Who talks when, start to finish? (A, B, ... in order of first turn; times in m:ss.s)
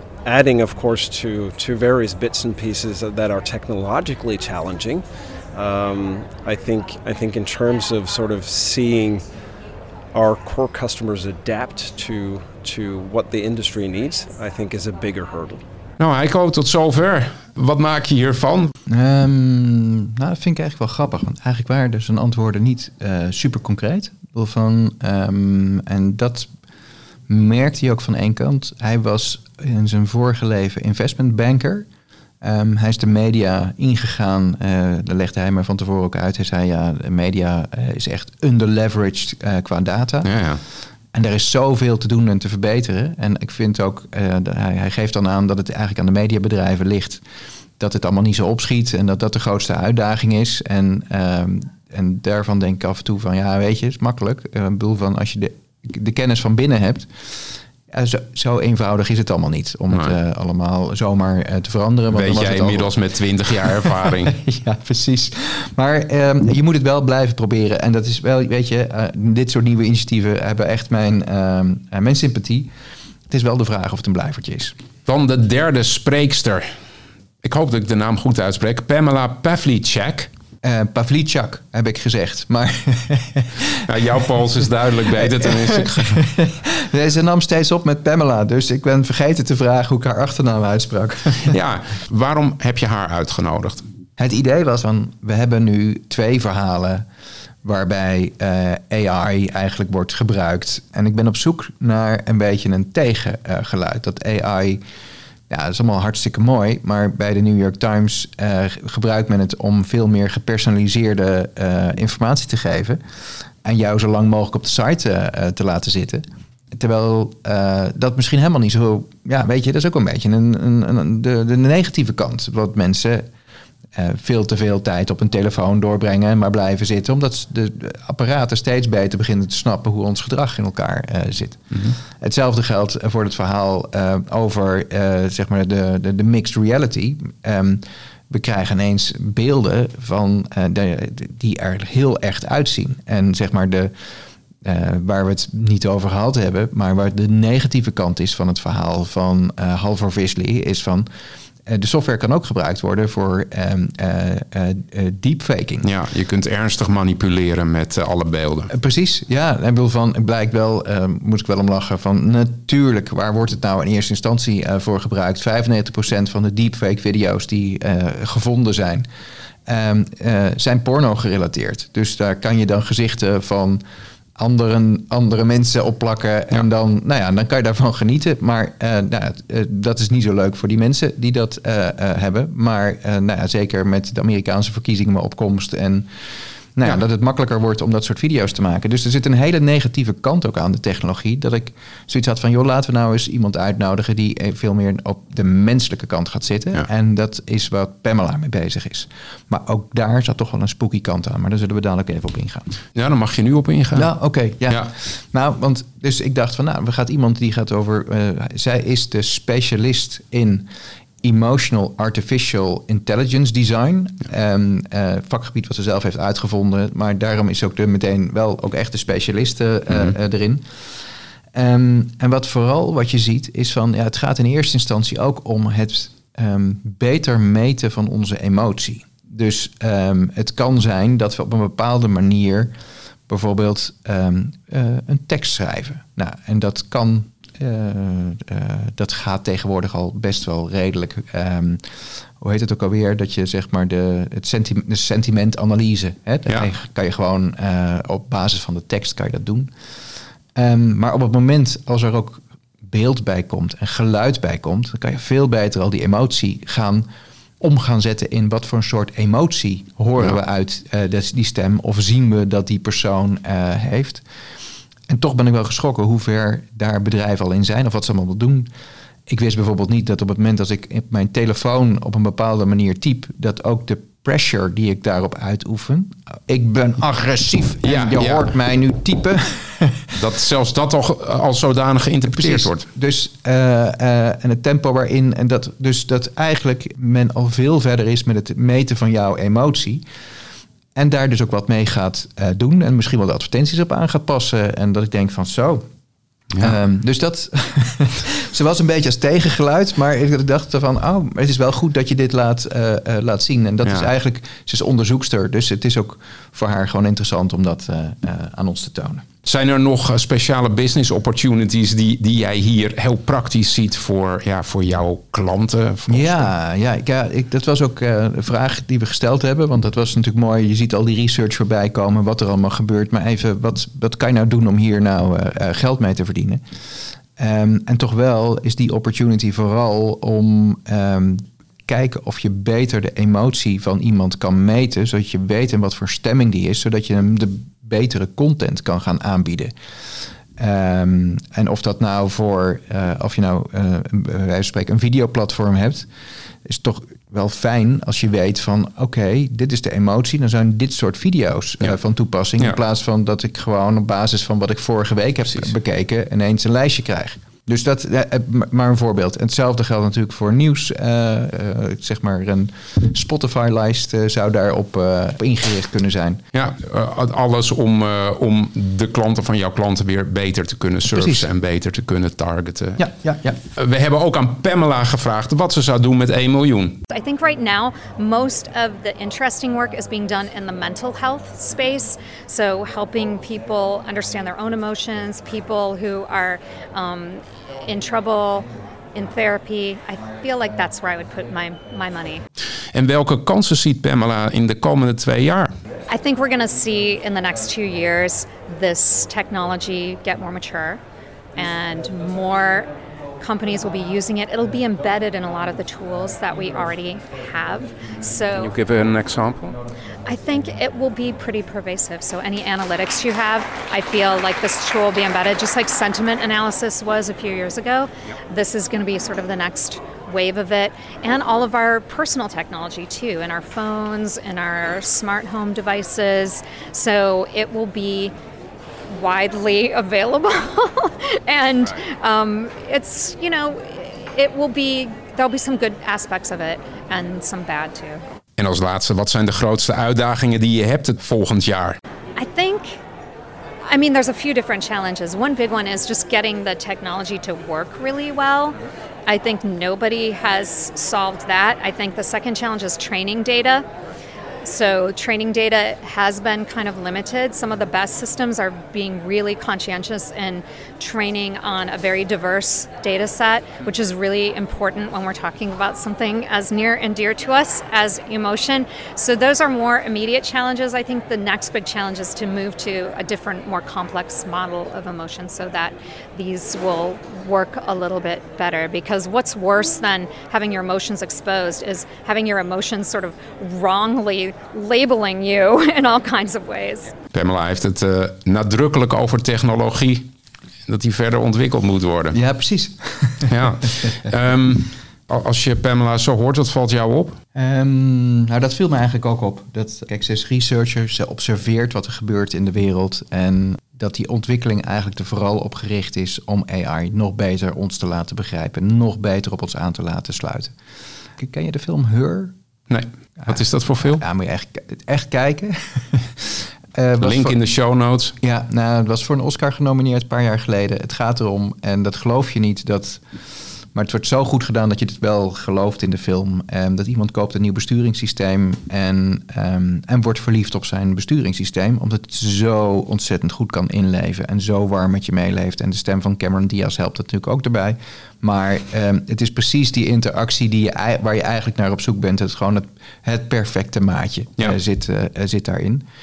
0:00.2-0:09.2 A
0:10.1-0:15.6 A
0:16.0-0:18.7 B
0:18.8-0:26.5 C
0:27.3-0:31.9 C
0:32.4-0:40.3 C
0:40.2-0:40.6 B
0:41.1-0:47.2 C
0:47.8-1:12.7 C
1:02.1-1:04.3 B
1:13.3-1:14.7 C
1:15.1-1:16.6 B
1:17.4-1:20.3 B
1:20.6-1:31.6 C
1:23.9-1:26.2 B
1:31.5-1:33.8 B
1:34.2-1:37.0 C
1:37.6-1:44.8 C
1:45.5-1:53.0 C
1:53.6-2:03.2 C
2:03.9-2:23.9 C
2:24.6-2:31.1 C
2:31.6-2:35.9 C
2:35.8-2:38.7 B
2:38.7-2:49.1 C
2:49.6-2:53.8 C
2:54.4-3:06.1 C
3:06.8-3:22.7 C
3:22.9-3:24.1 B
3:23.9-3:30.7 C
3:31.2-3:40.9 C
3:41.5-3:52.7 C
3:53.3-4:01.8 C
4:02.4-4:09.7 C
4:10.5-4:17.0 C
4:17.6-4:24.2 C
4:25.1-4:28.7 C
4:29.3-4:40.2 C
4:37.8-4:38.5 B
4:40.2-4:42.8 B
4:42.3-4:50.0 C
4:50.9-4:55.8 C
4:56.6-5:09.2 C
5:09.4-5:16.5 B
5:16.1-5:26.6 C
5:27.4-5:39.7 C
5:40.6-5:46.1 C
5:46.6-6:06.4 C
6:06.5-6:13.0 B
6:11.0-6:11.5 C
6:13.0-6:13.6 C
6:13.7-6:17.0 B
6:17.1-6:32.4 D
6:32.9-6:35.7 B
6:36.1-6:41.0 D
6:41.6-6:48.7 D
6:48.6-6:49.8 B
6:50.3-7:08.3 D
7:09.1-7:18.2 D
7:18.6-7:22.0 B
7:22.4-7:23.0 D
7:23.9-7:28.8 D
7:29.3-7:33.8 D
7:34.6-8:07.1 D
8:07.3-8:10.3 B
8:10.9-8:12.4 B
8:12.3-8:14.2 C
8:13.5-8:17.4 B
8:17.6-8:30.7 C
8:31.4-8:32.5 C
8:32.9-8:34.2 B
8:33.4-8:37.6 C
8:37.2-8:38.3 B
8:38.4-8:43.2 C
8:43.9-9:06.0 C